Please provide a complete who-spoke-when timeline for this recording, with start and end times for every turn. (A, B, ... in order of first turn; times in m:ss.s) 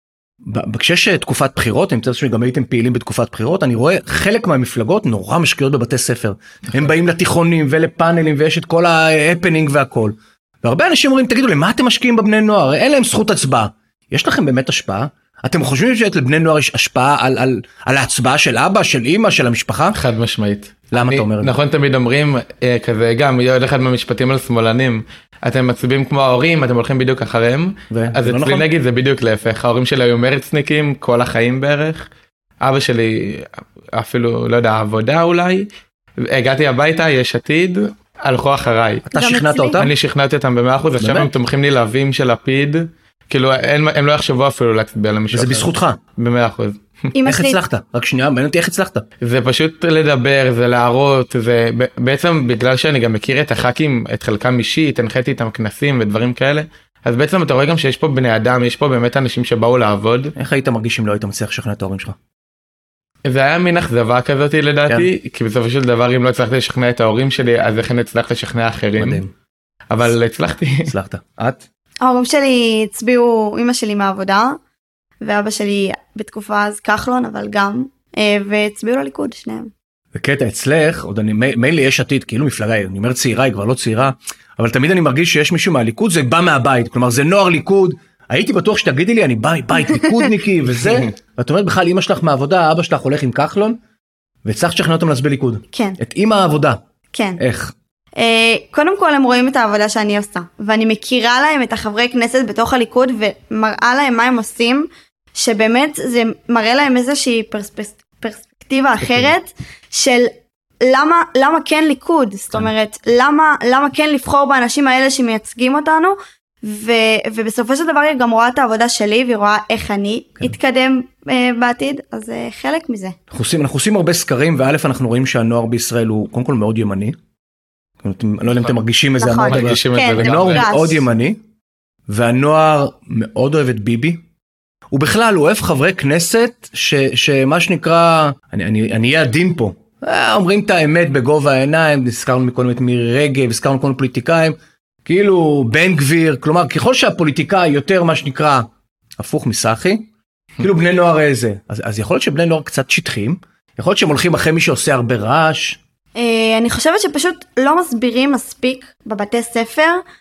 0:00.4-0:20.0 A
0:19.9-0:32.1 B
0:20.9-0:21.6 A
0:27.9-0:28.7 A
0:32.6-0:35.7 B
0:36.2-0:39.1 B
0:39.1-0:39.9 A
0:39.1-0:39.8 C
0:39.8-0:46.8 B
0:41.0-0:41.3 A
0:45.3-0:46.0 A
0:47.2-0:47.6 C
0:47.2-0:49.1 A
0:49.2-1:00.3 B
1:00.4-1:02.2 A
1:03.2-1:09.2 B
1:09.0-1:09.3 A
1:09.9-1:10.9 B
1:10.9-1:11.6 A
1:12.0-1:14.6 C
1:15.2-1:19.7 C
1:20.1-1:33.8 A
1:34.4-1:36.8 A
1:35.7-1:36.0 C
1:37.1-1:37.4 C
1:37.4-1:37.7 A
1:38.2-1:50.3 C
1:49.0-1:49.3 A
1:50.8-2:03.2 C
2:03.3-2:07.2 A
2:08.0-2:11.4 A
2:09.2-2:11.0 C
2:09.4-2:10.7 B
2:12.1-2:14.2 A
2:14.9-2:28.6 A
2:29.2-2:30.1 A
2:30.6-2:35.8 A
2:36.2-2:40.0 C